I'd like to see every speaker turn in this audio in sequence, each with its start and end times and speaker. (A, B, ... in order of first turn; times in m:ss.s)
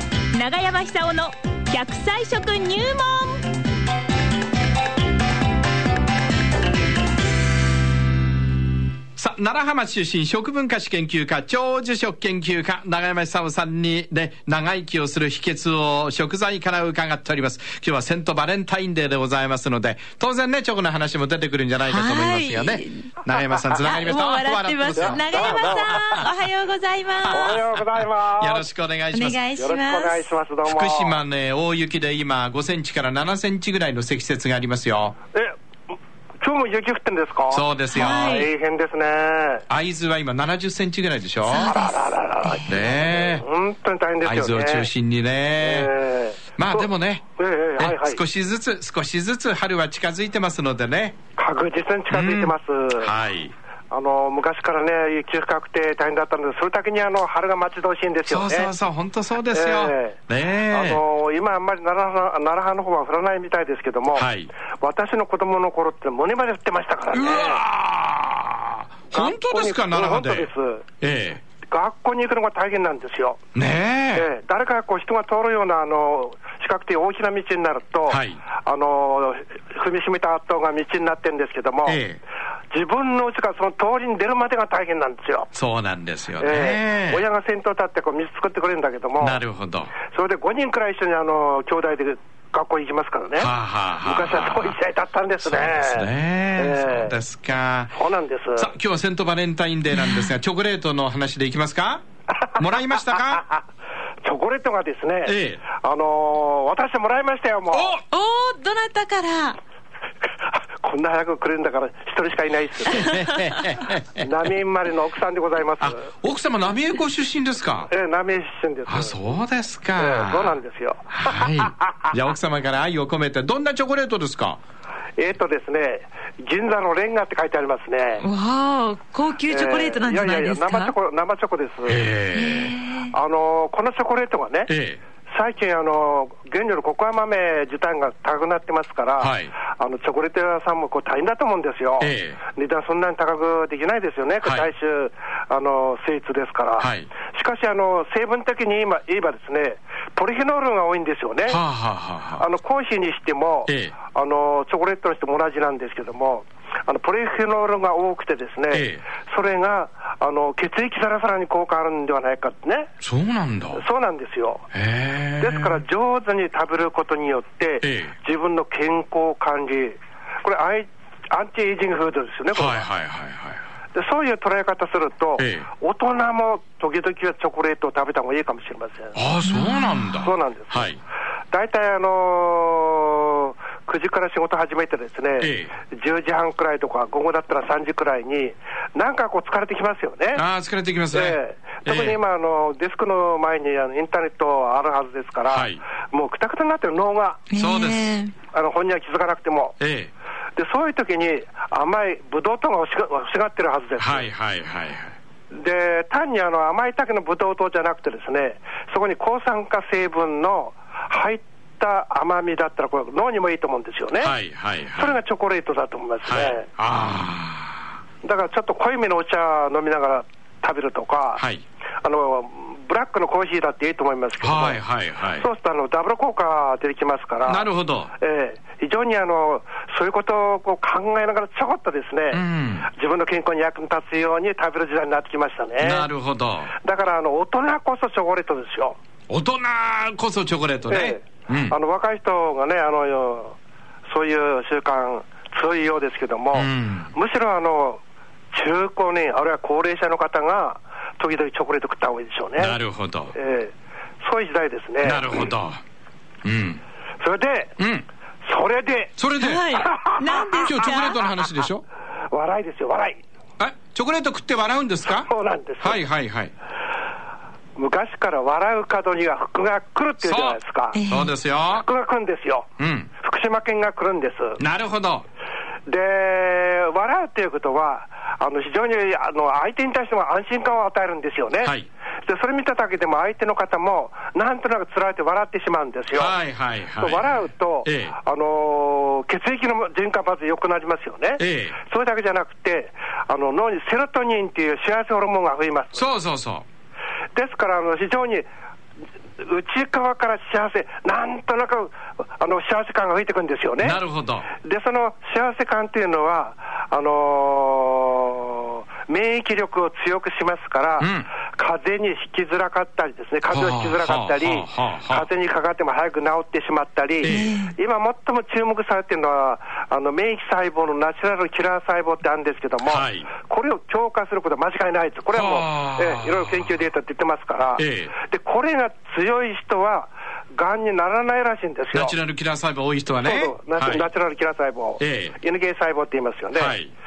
0:00.3-0:03.4 A
0:09.2-0:26.3 B
0:21.8-0:23.1 A
0:23.8-0:27.6 A
0:25.0-0:26.0 C
0:27.2-0:29.4 B
0:27.3-0:28.7 C
0:29.1-0:30.2 A
0:29.6-0:31.2 C
0:30.6-0:35.2 B
0:36.4-0:39.6 C
0:37.5-0:38.5 B
0:37.9-0:38.5 A
0:39.7-0:41.8 B
0:41.5-0:41.9 A
0:41.6-0:44.9 C
0:42.7-0:43.4 B
0:44.2-0:45.9 B
0:45.6-0:48.2 C
0:46.6-0:47.2 B
0:47.8-0:51.2 B
0:51.4-0:53.1 C
0:52.1-0:53.5 B
0:53.9-0:58.7 C
0:58.3-1:01.0 B
0:59.5-1:04.3 C
1:04.1-1:04.5 B
1:04.8-1:07.6 C
1:07.1-1:11.4 B
1:09.1-1:10.9 C
1:11.7-1:13.4 C
1:13.6-1:14.3 B
1:14.2-1:22.0 C
1:18.1-1:18.4 B
1:21.9-1:22.2 B
1:22.7-1:25.5 C
1:25.5-1:27.2 B
1:26.4-1:29.4 C
1:29.2-1:29.9 B
1:30.0-1:33.5 C
1:33.4-1:34.8 B
1:34.0-1:37.2 C
1:35.4-1:37.9 B
1:37.9-1:38.7 C
1:38.6-1:42.0 B
1:40.0-1:40.3 A
1:42.4-1:43.6 C
1:42.5-1:43.5 B
1:44.2-1:48.0 C
1:45.2-1:45.6 B
1:47.7-1:48.0 B
1:48.1-1:49.6 A
1:50.8-1:53.2 C
1:52.9-1:54.3 B
1:54.2-1:56.1 C
1:55.8-1:57.9 B
1:57.9-1:59.2 C
1:58.9-2:00.6 B
2:00.0-2:02.1 C
2:01.1-2:04.6 B
2:05.2-2:08.2 C
2:08.2-2:10.9 A
2:09.5-2:12.1 C
2:11.9-2:12.8 B
2:12.3-2:13.1 A
2:13.1-2:14.7 C
2:14.7-2:15.0 B
2:15.3-2:31.6 C
2:19.2-2:19.5 B
2:22.0-2:22.4 B
2:24.4-2:24.7 B
2:26.8-2:27.1 B
2:31.5-2:32.4 B
2:32.4-2:42.9 C
2:33.7-2:33.9 B
2:38.7-2:39.0 B
2:43.0-2:43.8 B
2:43.7-2:44.7 C
2:44.7-2:45.8 B
2:45.4-2:52.9 C
2:47.8-2:48.1 B
2:52.5-2:53.6 B
2:53.9-2:59.2 C
2:55.4-2:55.7 B
2:59.2-3:01.0 B
3:00.2-3:00.9 C
3:01.5-3:10.4 C
3:05.4-3:05.7 B
3:10.3-3:12.2 B
3:11.1-3:17.4 C
3:15.5-3:15.8 B
3:17.5-3:18.3 A
3:17.5-3:18.2 B
3:18.5-3:19.8 C
3:19.8-3:20.1 B
3:20.6-3:24.3 C
3:24.0-3:25.1 B
3:25.5-3:34.4 C
3:34.2-3:35.2 B
3:35.0-3:36.7 C
3:36.3-3:37.9 B
3:38.2-3:41.4 C
3:41.4-3:41.6 B
3:42.0-3:44.8 C
3:44.4-3:45.5 B
3:45.3-3:56.1 C
3:47.4-3:48.1 B
3:52.3-3:52.9 B
3:55.8-3:56.7 B
3:56.8-3:59.0 C
3:59.3-4:01.8 B
4:00.9-4:03.6 C
4:04.1-4:08.0 C
4:06.5-4:07.1 B
4:08.5-4:12.8 C
4:12.6-4:13.3 B
4:13.3-4:15.5 C
4:15.0-4:15.8 B
4:16.4-4:16.8 B
4:17.2-4:17.8 C
4:17.8-4:18.0 B
4:18.4-4:19.2 C
4:19.2-4:19.7 B
4:19.4-4:21.2 A
4:19.7-4:20.9 C
4:20.6-4:21.8 B
4:22.3-4:23.2 C
4:23.6-4:25.3 B
4:25.1-4:26.0 C
4:25.8-4:26.5 B
4:27.8-4:31.0 C
4:30.2-4:31.9 B
4:30.9-4:31.3 A
4:31.7-4:34.6 C
4:32.8-4:33.1 B
4:34.6-4:35.2 B
4:35.9-4:46.4 C
4:46.1-4:48.2 B
4:47.0-4:56.1 C
4:51.4-4:51.8 B
4:55.9-4:56.6 B
4:57.3-4:58.5 C
4:59.4-5:04.0 C
5:03.8-5:04.5 B
5:04.5-5:32.2 C
5:11.0-5:11.3 B
5:13.5-5:15.3 B
5:17.2-5:17.5 B
5:17.2-5:17.7 A
5:22.8-5:23.3 B
5:25.3-5:26.8 B
5:27.8-5:28.1 B
5:31.9-5:34.1 B
5:33.2-5:36.8 C
5:35.0-5:35.4 B
5:36.6-5:36.9 B